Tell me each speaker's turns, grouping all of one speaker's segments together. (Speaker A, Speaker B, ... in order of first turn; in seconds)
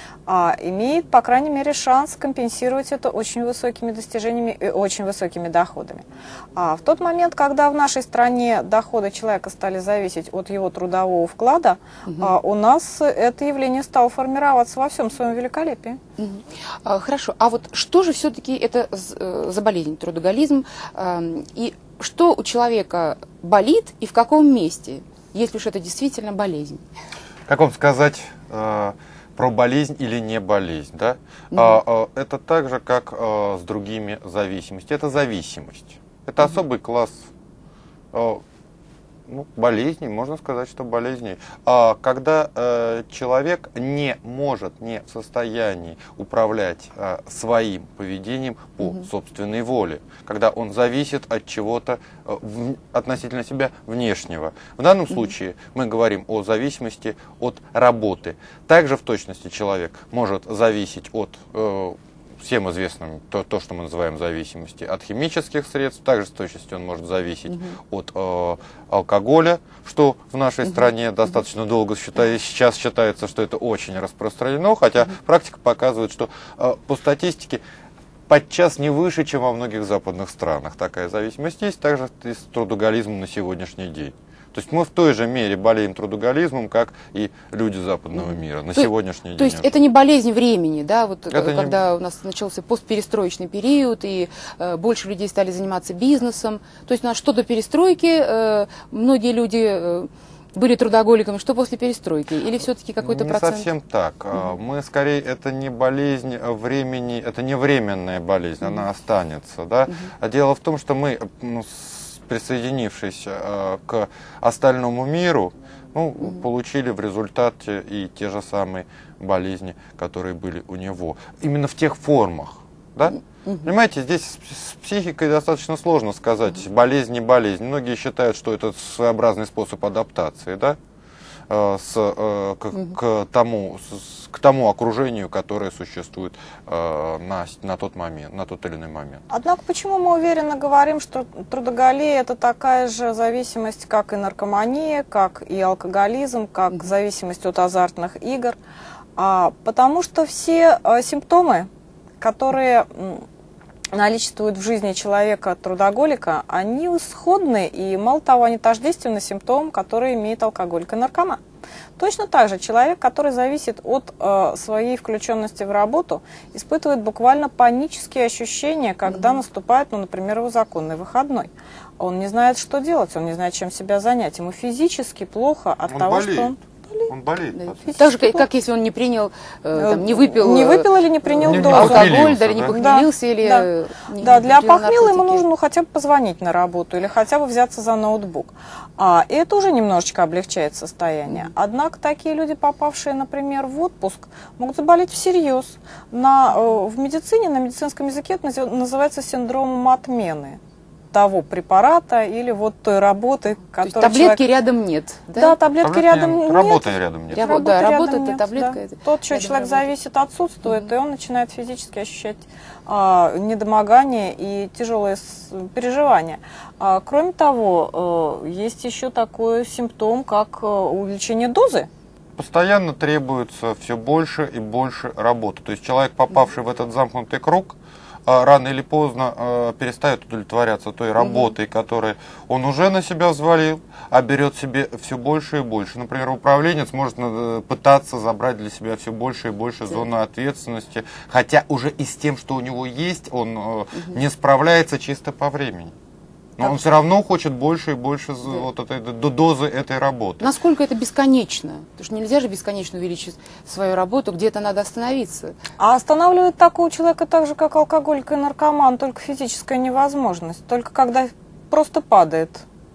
Speaker A: 0.3-6.0, 6.5-16.0, 139.3-148.6, 149.2-151.7, 152.2-153.2, 153.9-161.4, 162.0-177.1, 177.7-178.4, 179.7-200.6, 201.1-204.4, 205.3-221.9, 255.8-262.6
Speaker B: 12.1-12.3, 16.2-26.9, 31.5-31.8, 67.5-67.8, 88.2-103.7, 169.1-169.4, 177.6-185.4, 203.8-205.5, 207.3-209.9, 250.4-255.6
Speaker C: 27.5-37.2, 38.1-38.4, 39.3-77.6, 78.3-89.7, 91.3-91.8, 103.0-130.8, 131.5-139.2, 175.9-176.5, 177.1-177.8, 181.4-182.7, 205.8-207.5, 222.4-245.9, 246.6-250.5